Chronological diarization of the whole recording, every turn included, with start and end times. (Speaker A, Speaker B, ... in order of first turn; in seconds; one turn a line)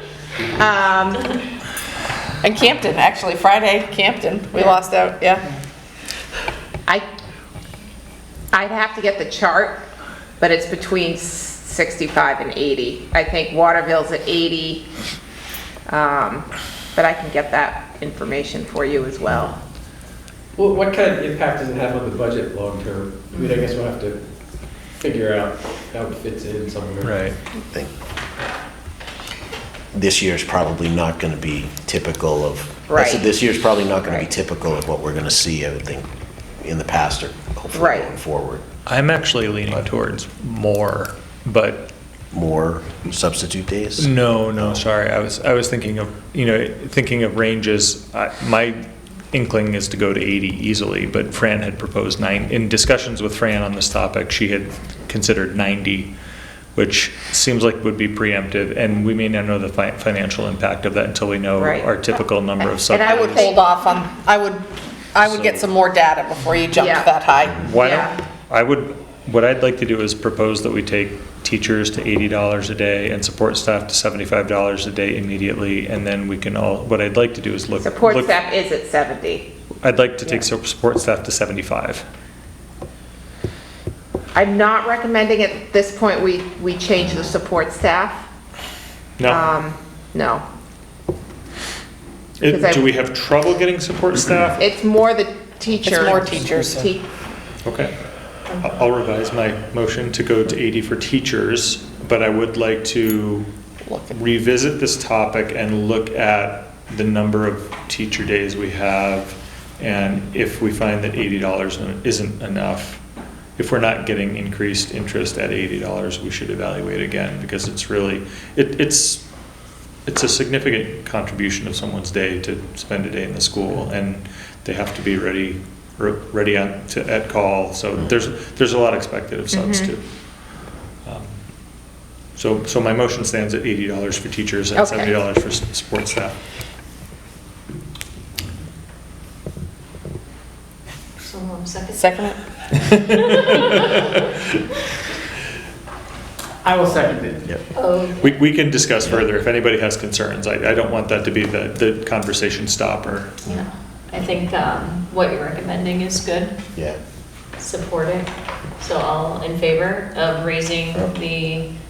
Speaker A: 0.4-1.4
Speaker B: 2.4-5.5
Speaker A: 8.5-9.8
Speaker A: 10.4-14.9
Speaker A: 15.9-19.6
Speaker C: 20.6-24.2
Speaker C: 24.9-27.2
Speaker D: 27.0-27.4
Speaker E: 29.9-36.1
Speaker A: 32.9-33.2
Speaker E: 36.6-38.6
Speaker A: 37.7-38.1
Speaker D: 38.9-41.9
Speaker E: 42.3-44.9
Speaker D: 44.0-56.1
Speaker D: 56.7-63.5
Speaker A: 61.6-61.9
Speaker A: 62.6-63.6
Speaker B: 63.0-67.6
Speaker D: 65.2-65.6
Speaker A: 66.8-67.1
Speaker D: 67.5-78.3
Speaker A: 67.7-68.2
Speaker A: 77.8-79.5
Speaker D: 79.8-82.0
Speaker A: 84.3-88.3
Speaker D: 89.2-89.5
Speaker A: 89.2-90.4
Speaker D: 92.4-94.6
Speaker A: 92.4-92.8
Speaker A: 94.6-97.1
Speaker B: 95.8-96.9
Speaker D: 97.6-97.9
Speaker D: 98.5-103.5
Speaker B: 103.9-104.1
Speaker D: 104.1-113.0
Speaker D: 113.6-119.2
Speaker D: 120.0-130.0
Speaker A: 129.5-129.9
Speaker D: 131.0-131.4
Speaker D: 132.3-136.3
Speaker A: 134.8-135.1
Speaker F: 141.2-144.1
Speaker B: 141.9-142.4
Speaker D: 143.4-144.0
Speaker C: 146.7-147.4
Speaker F: 147.7-148.4
Speaker D: 148.2-153.4
Speaker F: 153.4-156.6
Speaker E: 156.7-157.0
Speaker F: 157.6-161.7